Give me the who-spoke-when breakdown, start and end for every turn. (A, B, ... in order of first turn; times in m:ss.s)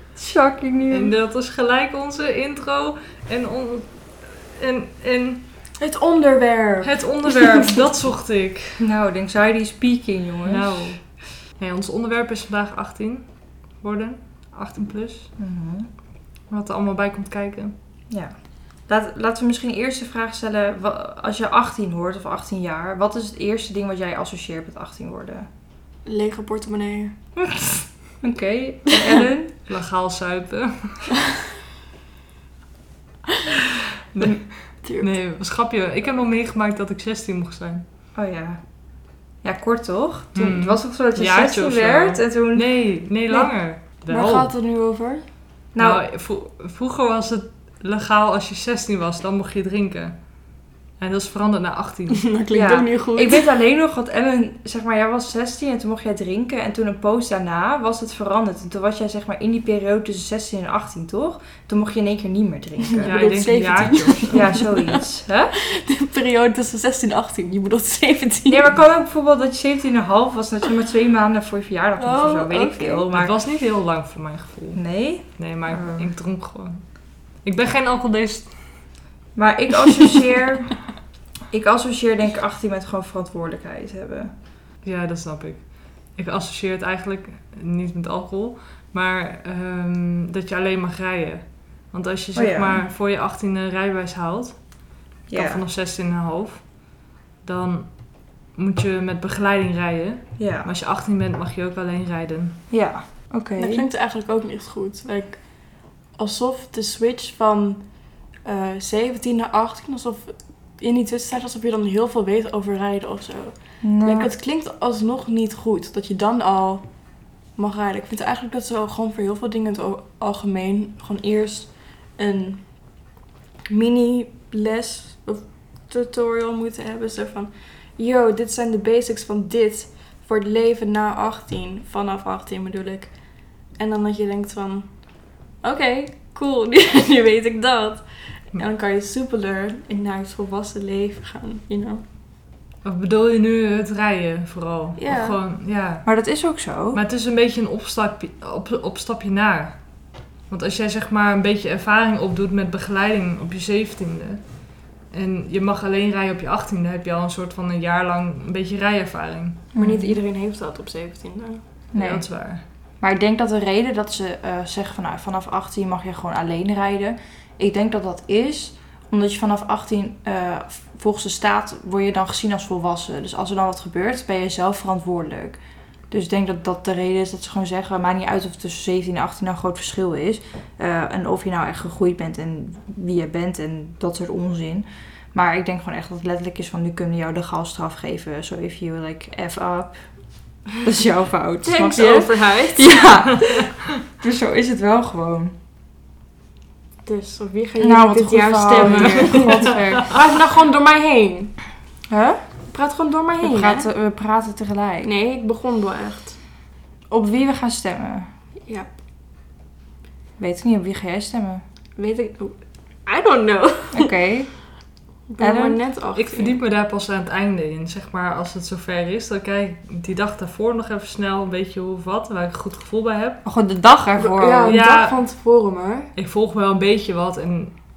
0:00.2-0:01.1 A
0:00.9-0:03.9 B
0:04.5-0:05.4 B
0:05.8-0:07.8 C
0:06.8-0:08.8 B
0:08.8-0:10.9 A
0:10.4-0:11.0 B
0:11.6-0:13.2 B
0:13.8-0:15.3 B
0:15.4-0:15.9 A
0:16.5-0:17.7 B
0:18.9-0:25.5 A
0:26.0-0:27.2 C
0:27.4-0:29.5 A
0:29.7-0:31.2 B
0:34.2-0:37.8 B
0:34.8-0:35.1 C
0:38.1-0:38.6 A
0:39.4-0:43.5 A
0:40.3-0:44.5 B
0:44.1-0:45.2 C
0:45.7-0:46.0 A
0:45.8-0:50.2 B
0:51.0-0:52.2 B
0:52.1-0:53.4 C
0:52.5-1:03.2 A
1:02.9-1:05.0 C
1:03.0-1:04.6 B
1:04.3-1:05.5 A
1:05.6-1:08.7 C
1:08.5-1:13.3 A
1:12.0-1:13.0 C
1:13.0-1:18.6 B
1:14.7-1:16.1 A
1:19.3-1:20.8 A
1:21.5-1:24.3 A
1:24.8-1:34.8 B
1:32.3-1:32.8 A
1:35.3-1:35.6 A
1:35.3-1:37.9 B
1:38.5-1:42.6 B
1:40.4-1:40.7 A
1:42.7-1:43.8 A
1:43.6-1:47.8 C
1:48.4-1:56.9 C
1:53.8-1:54.3 A
1:57.5-2:02.9 C
2:03.7-2:13.2 C
2:13.7-2:22.0 C
2:22.8-2:26.1 B
2:25.0-2:25.4 C
2:26.0-2:27.0 A
2:26.9-2:29.8 B
2:30.5-2:39.6 B
2:39.7-2:40.2 A
2:39.8-2:41.6 C
2:41.9-2:42.2 A
2:41.9-2:42.6 B
2:43.0-2:55.6 A
2:56.1-3:10.0 A
3:10.8-3:15.5 A
3:11.6-3:13.1 C
3:17.0-3:21.6 C
3:17.8-3:20.1 A
3:18.8-3:20.0 B
3:22.1-3:22.4 A
3:22.7-3:23.9 C
3:23.4-3:25.1 A
3:25.0-3:26.4 C
3:27.1-3:28.3 A
3:30.4-3:31.6 A
3:32.0-3:34.1 C
3:33.9-3:34.7 A
3:35.3-3:36.6 C
3:35.4-3:35.8 A
3:36.1-3:43.4 B
3:43.4-3:44.8 A
3:44.2-3:46.1 C
3:44.7-3:45.2 B
3:46.1-3:47.7 B